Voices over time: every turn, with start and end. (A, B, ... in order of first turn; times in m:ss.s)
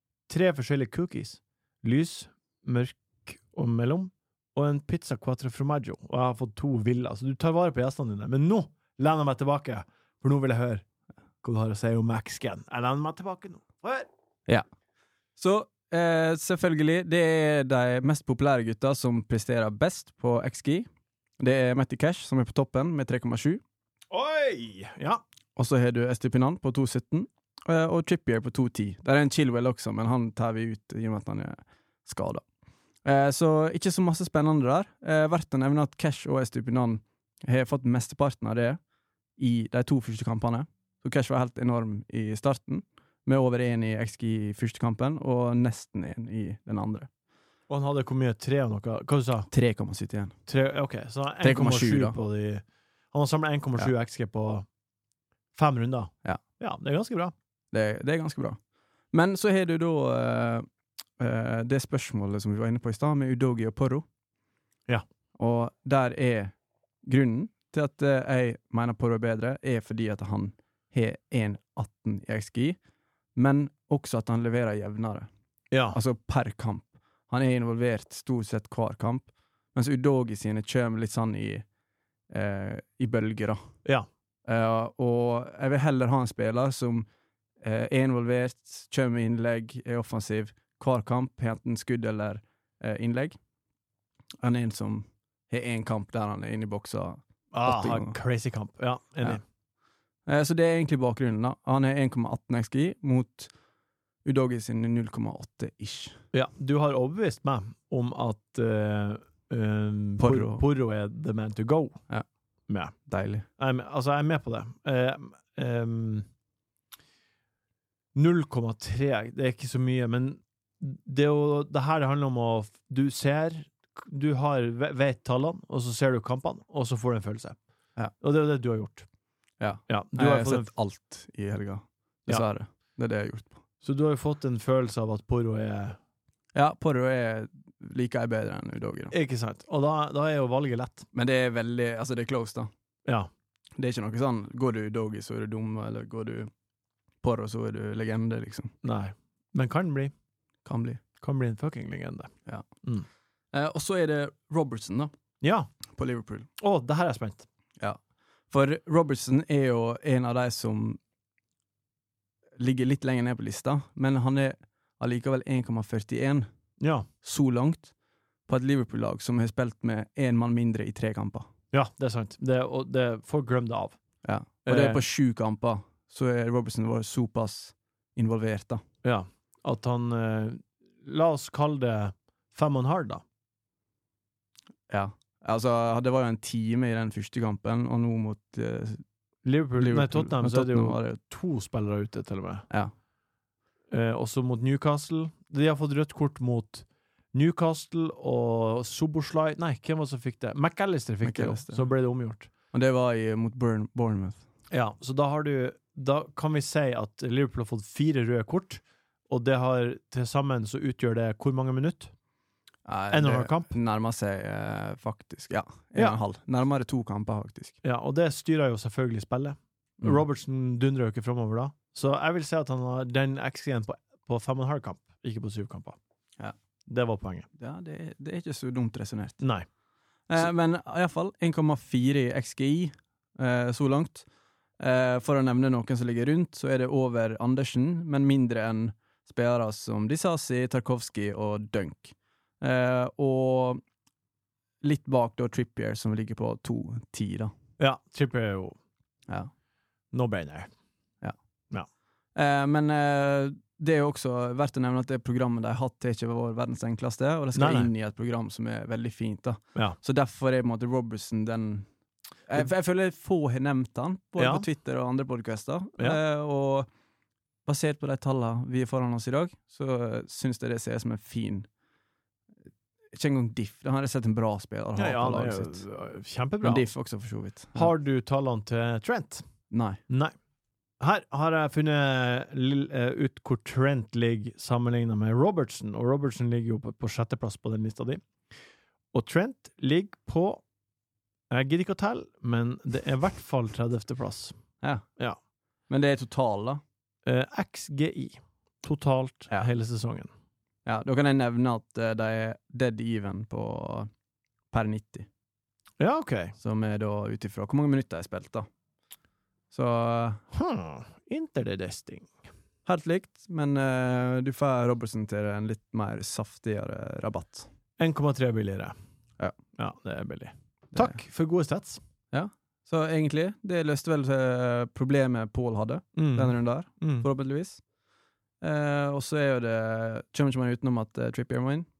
0:00.3-0:10.8 A
0:11.4-0:14.1 A
0:15.4-0:20.9 B
0:21.4-0:23.6 B
0:24.1-0:25.2 A
0:25.6-0:32.4 B
0:33.0-0:38.8 B
0:39.4-0:47.1 B
0:47.7-0:49.5 A
0:49.5-0:50.4 B
0:50.4-0:54.7 A
0:51.4-0:52.2 B
0:55.5-0:57.3 A
0:57.7-0:58.6 B
0:59.1-1:00.7 B
1:01.2-1:04.0 B
1:05.4-1:06.5 B
1:07.0-1:12.8 B
1:13.3-1:15.3 B
1:15.7-1:16.0 A
1:15.9-1:21.6 B
1:22.3-1:23.6 B
1:24.4-1:27.1 B
1:27.6-1:33.4 B
1:34.4-1:38.2 B
1:37.5-1:39.4 A
1:40.2-1:43.5 B
1:44.2-1:46.2 B
1:46.3-1:52.0 A
1:50.2-1:50.6 B
1:52.7-1:52.9 A
1:53.0-1:53.5 B
1:53.6-1:56.3 A
1:58.1-2:07.6 A
2:08.2-2:09.1 A
2:09.6-2:13.6 B
2:09.9-2:10.7 A
2:13.8-2:16.0 A
2:16.5-2:19.1 B
2:19.1-2:21.1 A
2:21.1-2:22.7 B
2:23.8-2:26.5 B
2:27.2-2:28.7 B
2:28.8-2:30.1 A
2:30.6-2:31.0 B
2:31.2-2:32.3 A
2:33.5-2:35.1 B
2:35.4-2:35.7 A
2:35.9-2:36.5 B
2:36.6-2:37.5 A
2:37.8-2:41.0 B
2:42.6-2:46.5 B
2:46.8-2:47.1 A
2:47.2-2:47.9 B
2:48.5-2:51.5 B
2:51.7-2:54.0 A
2:54.2-2:58.8 B
2:54.6-2:55.0 A
2:59.0-3:03.2 A
3:04.9-3:09.0 B
3:09.4-3:12.7 A
3:09.8-3:11.2 B
3:13.9-3:22.5 A
3:21.2-3:21.9 B
3:22.7-3:24.4 B
3:24.7-3:32.1 A
3:32.8-3:37.8 B
3:33.1-3:33.7 A
3:37.8-3:46.0 A
3:46.9-3:47.5 A
3:47.6-3:49.4 B
3:49.4-3:49.7 A
3:50.3-3:54.2 B
3:54.8-4:03.8 B
4:04.8-4:07.5 B
4:07.8-4:08.8 A
4:10.1-4:10.7 A
4:12.3-4:21.9 B
4:17.5-4:17.9 A
4:22.5-4:26.9 B
4:24.4-4:24.6 A
4:27.6-4:31.7 B
4:33.1-4:35.8 B
4:35.0-4:36.8 A
4:36.6-4:37.9 B
4:37.7-4:39.5 A
4:39.7-4:40.0 B
4:40.1-4:40.3 A
4:41.0-4:48.3 A
4:49.1-4:50.6 A
4:51.5-4:54.6 A
4:54.8-4:55.1 B
4:55.9-4:56.8 B
4:57.2-5:00.3 A
5:00.8-5:04.1 B
5:04.7-5:05.3 B
5:06.0-5:06.5 A
5:06.6-5:08.7 B
5:09.7-5:10.4 B
5:10.5-5:12.4 A
5:12.8-5:17.7 B
5:18.0-5:18.9 A
5:19.7-5:22.0 A
5:22.3-5:27.8 B
5:26.2-5:27.3 A
5:28.6-5:31.9 B